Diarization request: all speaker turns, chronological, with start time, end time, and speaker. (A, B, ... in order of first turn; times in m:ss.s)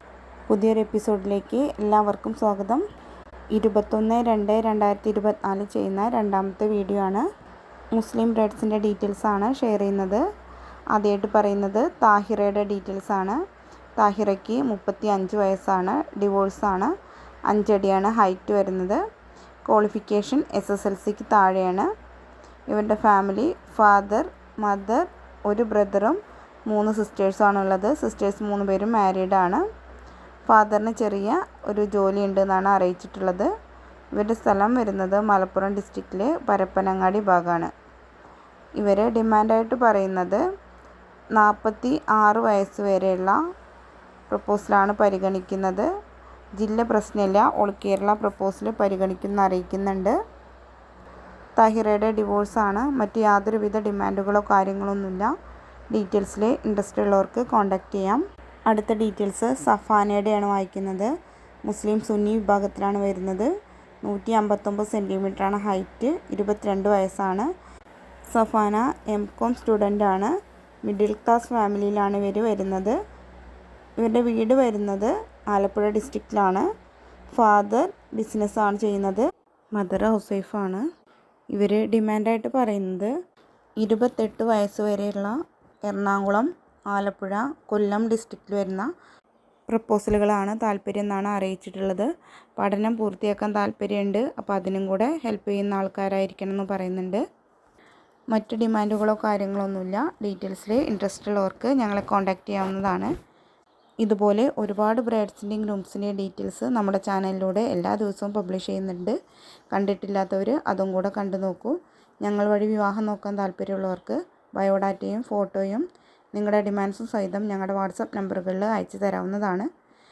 0:00.5-0:02.8 A
0:03.5-0:07.2 A
0:07.9-0:10.2 A
0:10.9-0:13.4 A
0:14.0-0:16.9 A
0:17.5-0:19.0 A
0:19.7-0:21.9 A
0:22.7-0:29.6 A
0:30.5-0:33.5 A
0:34.2-0:37.7 A
0:38.8-0:40.4 A
0:41.4-0:43.4 A
0:44.3-0:45.9 A
0:46.6-0:50.2 A
0:51.6-0:55.3 A
0:55.9-1:01.1 A
1:01.7-1:03.5 A
1:04.0-1:07.5 A
1:08.3-1:10.3 A
1:10.8-1:13.0 A
1:14.0-1:16.7 A
1:17.3-1:19.2 A
1:19.7-1:20.8 A
1:21.5-1:23.1 A
1:23.8-1:25.4 A
1:25.9-1:28.9 A
1:29.7-1:37.2 A
1:38.3-1:43.1 A
1:44.0-1:49.1 A
1:49.7-1:59.7 A